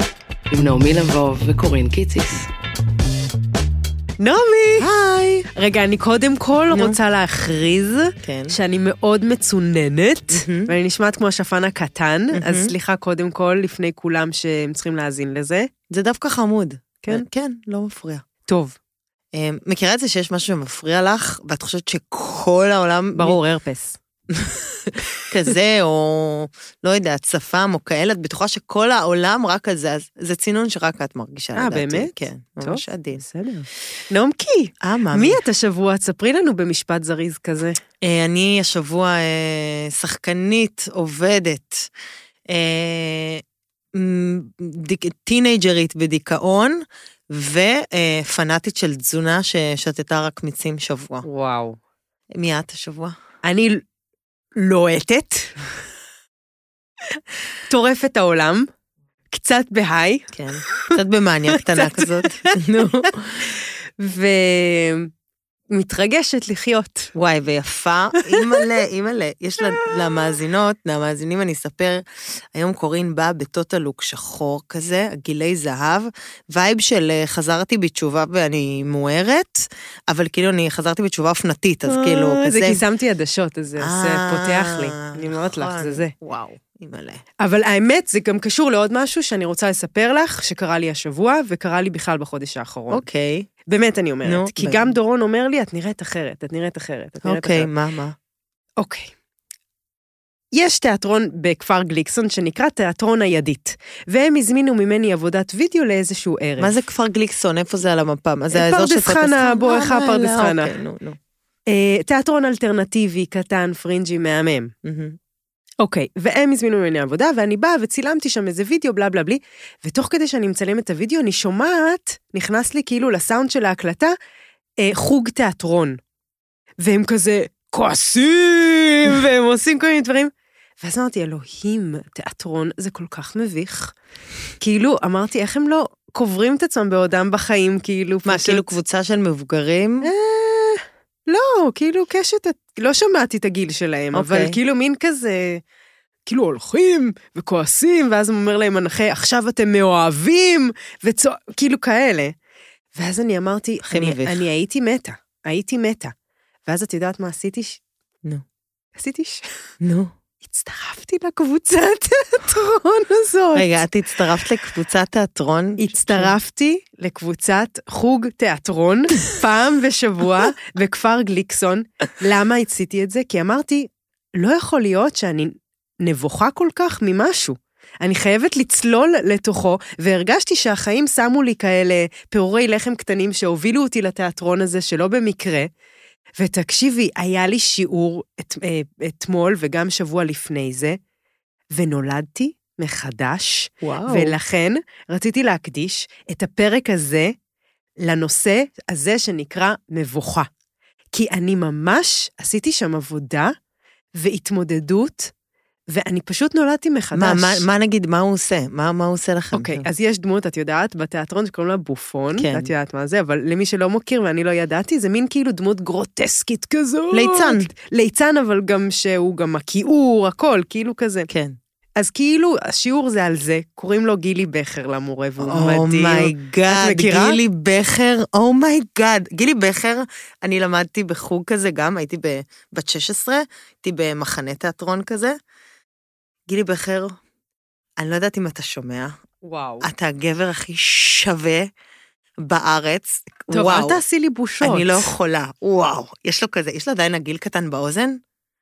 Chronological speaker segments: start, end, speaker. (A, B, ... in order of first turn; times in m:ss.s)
0:00.5-0:02.5 A
0:04.2-0:04.9 B
0:04.8-0:05.5 C
0:05.5-0:15.7 B
0:06.7-0:07.0 C
0:08.2-0:08.6 C
0:10.3-0:10.7 C
0:12.3-0:12.7 C
0:15.9-0:18.2 C
0:18.5-0:18.8 B
0:19.3-0:23.4 C
0:23.2-0:24.0 B
0:24.3-0:33.2 C
0:31.6-0:37.8 B
0:34.8-0:35.4 C
0:38.0-0:41.9 C
0:42.5-0:43.4 C
0:43.9-0:51.3 C
0:51.2-0:51.8 B
0:52.4-0:53.2 C
0:53.4-0:53.8 B
0:54.6-0:55.6 B
0:57.7-0:58.7 B
0:59.3-1:00.3 B
1:00.3-1:03.5 C
1:01.6-1:02.6 B
1:04.0-1:05.1 B
1:05.7-1:07.1 B
1:07.2-1:22.8 C
1:08.2-1:08.6 B
1:21.9-1:26.1 B
1:23.8-1:27.2 C
1:27.4-1:33.0 B
1:32.9-1:33.5 C
1:33.7-1:37.7 B
1:34.2-1:34.9 C
1:37.2-1:38.2 C
1:38.8-1:39.1 B
1:40.6-1:46.8 B
1:46.6-1:51.2 C
1:48.5-1:50.7 B
1:51.7-1:54.7 B
1:54.8-1:55.2 C
1:55.8-2:04.2 B
2:04.8-2:06.0 B
2:06.8-2:13.9 B
2:14.6-2:18.6 B
2:18.2-2:20.1 C
2:20.0-2:25.6 B
2:24.1-2:24.6 C
2:26.3-2:32.4 B
2:33.0-2:36.1 B
2:33.9-2:34.4 C
2:36.7-2:37.8 B
2:39.0-2:39.5 B
2:39.8-2:40.1 C
2:40.5-2:43.7 B
2:43.6-2:46.3 C
2:45.8-3:05.7 B
3:06.4-3:11.0 B
3:11.8-3:17.3 B
3:13.8-3:14.4 C
3:18.0-3:20.5 B
3:21.1-3:23.6 B
3:24.2-3:25.3 B
3:25.9-3:27.6 B
3:27.1-3:29.9 C
3:29.5-3:41.3 B
3:32.4-3:32.7 C
3:37.1-3:37.7 C
3:41.3-3:41.6 C
3:42.0-3:47.4 B
3:45.4-3:55.4 C
3:56.5-3:57.2 C
3:58.0-3:59.2 C
3:59.4-3:59.9 B
3:59.8-4:01.7 C
4:02.4-4:04.0 C
4:03.5-4:05.1 B
4:04.6-4:08.2 C